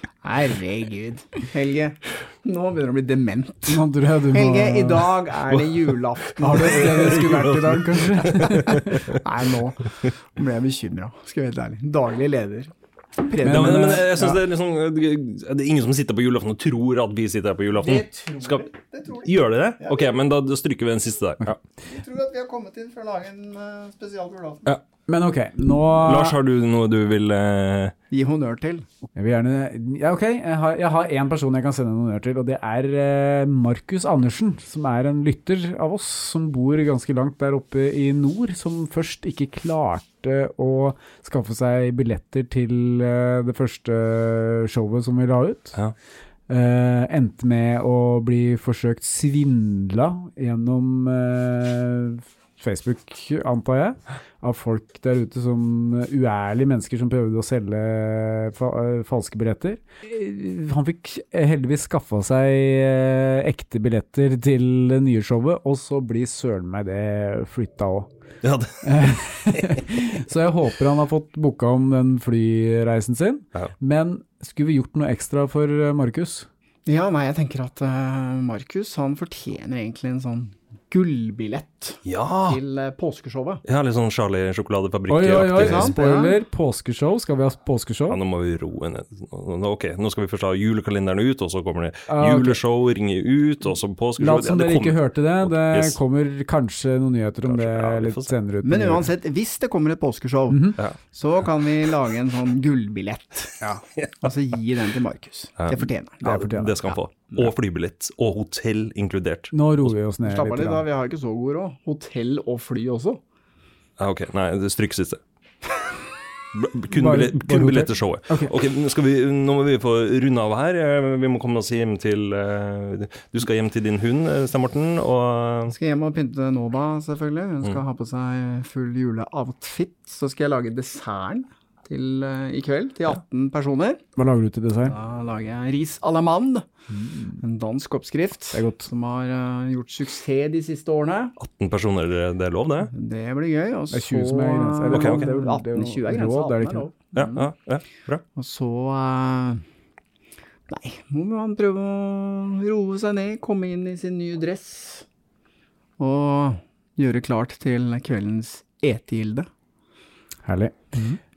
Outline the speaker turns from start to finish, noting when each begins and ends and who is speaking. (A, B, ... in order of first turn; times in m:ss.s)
0:00.2-0:07.2 A
0:03.7-0:05.2 B
0:06.4-0:09.1 B
0:06.6-0:09.2 C
0:09.1-0:14.1 A
0:13.4-0:14.4 B
0:13.4-0:21.6 C
0:17.8-0:20.0 A
0:21.8-0:24.8 A
0:25.1-0:26.4 B
0:26.0-0:27.9 C
0:28.1-0:28.9 A
0:29.2-0:45.8 B
0:46.5-1:08.1 B
1:08.4-1:08.8 C
1:08.8-1:16.5 B
1:16.9-1:23.6 A
1:22.0-1:22.6 C
1:23.7-1:25.9 C
1:25.1-1:28.2 B
1:25.5-1:26.4 A
1:28.1-1:36.0 C
1:32.1-1:32.6 B
1:34.2-1:39.1 B
1:37.4-1:38.3 C
1:38.6-1:43.6 A
1:40.5-1:40.8 B
1:44.0-1:44.3 C
1:44.2-1:46.2 A
1:45.6-1:49.9 C
1:46.2-1:46.9 B
1:49.5-1:50.8 B
1:50.2-1:53.2 A
1:54.0-1:55.2 C
1:56.5-2:05.7 C
1:56.9-1:58.5 B
2:05.7-2:14.0 A
2:14.2-2:15.0 B
2:14.8-2:16.6 A
2:16.9-2:17.4 B
2:17.4-2:21.4 A
2:18.5-2:18.9 B
2:21.4-2:22.9 C
2:22.9-2:27.5 A
2:23.9-2:26.9 B
2:24.9-2:25.3 C
2:27.1-2:28.2 C
2:28.4-2:29.6 A
2:30.7-2:35.1 A
2:36.0-2:39.5 A
2:40.4-2:41.2 B